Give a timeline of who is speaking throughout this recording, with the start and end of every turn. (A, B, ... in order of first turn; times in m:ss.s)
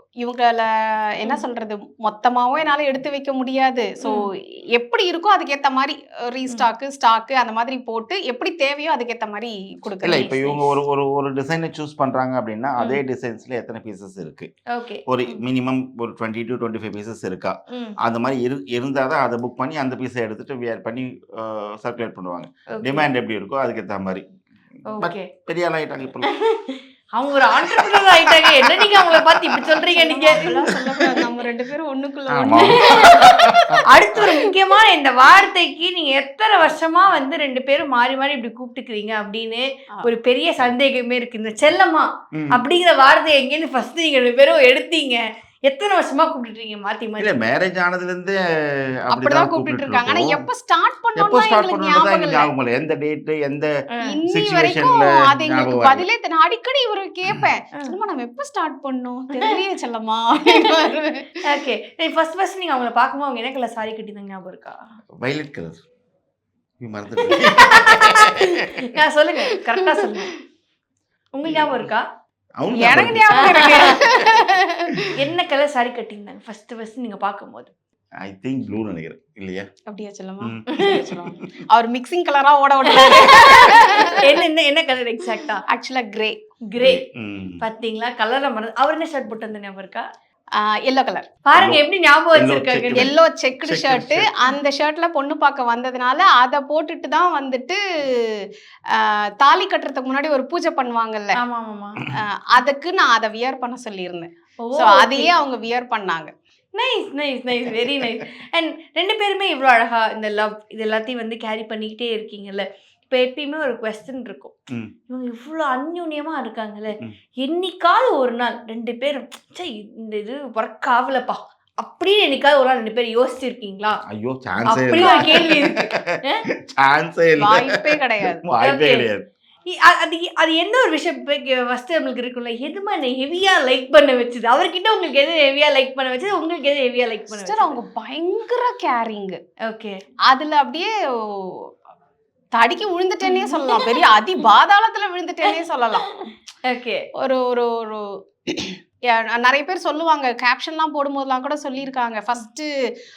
0:00.2-0:10.8 A
0:10.0-0:14.5 B
0:14.7-0:15.4 C
0:15.1-0:24.2 B
0:17.7-0:18.0 C
0:22.7-0:23.1 C
0:24.9-0:25.3 C
0:24.9-0:26.3 B
0:26.3-0:30.7 C
0:27.5-0:29.8 B
0:29.9-0:34.5 A
0:30.3-0:30.9 B
0:32.3-0:33.8 B
0:32.5-0:33.3 C
0:33.9-0:47.3 C
0:42.3-0:42.6 B
0:47.2-0:50.4 B
0:49.1-0:52.5 A
0:51.2-0:53.7 B
0:54.1-1:01.4 A
0:54.3-0:56.0 B
1:00.5-1:00.8 C
1:01.4-1:04.8 C
1:05.2-1:05.8 B
1:06.8-1:08.7 B
1:07.2-1:10.3 C
1:09.8-1:10.1 A
1:11.4-1:12.1 C
1:11.4-1:11.9 B
1:12.6-1:14.1 B
1:12.7-1:14.9 A
1:13.3-1:14.0 C
1:15.2-1:17.7 C
1:18.2-1:19.7 B
1:19.9-1:24.4 A
1:20.4-1:21.3 B
1:22.9-1:25.6 C
1:25.7-1:26.4 A
1:26.7-1:27.0 C
1:26.8-1:27.6 B
1:27.6-1:30.1 C
1:30.6-1:31.3 A
1:31.4-1:33.2 C
1:31.6-1:34.3 B
1:33.0-1:41.4 A
1:41.4-1:42.0 C
1:42.1-1:46.3 A
1:44.6-1:45.3 C
1:46.8-1:54.5 C
1:55.1-2:04.0 C
2:04.1-2:06.0 B
2:04.7-2:06.4 C
2:04.9-2:05.5 A
2:06.6-2:09.3 B
2:07.4-2:08.4 A
2:08.6-2:09.1 C
2:09.7-2:17.8 C
2:17.3-2:19.4 A
2:19.7-2:20.0 C
2:20.3-2:21.7 A
2:22.6-2:26.1 A
2:23.2-2:24.5 C
2:25.5-2:26.0 C
2:26.7-2:27.0 C
2:27.2-2:32.7 A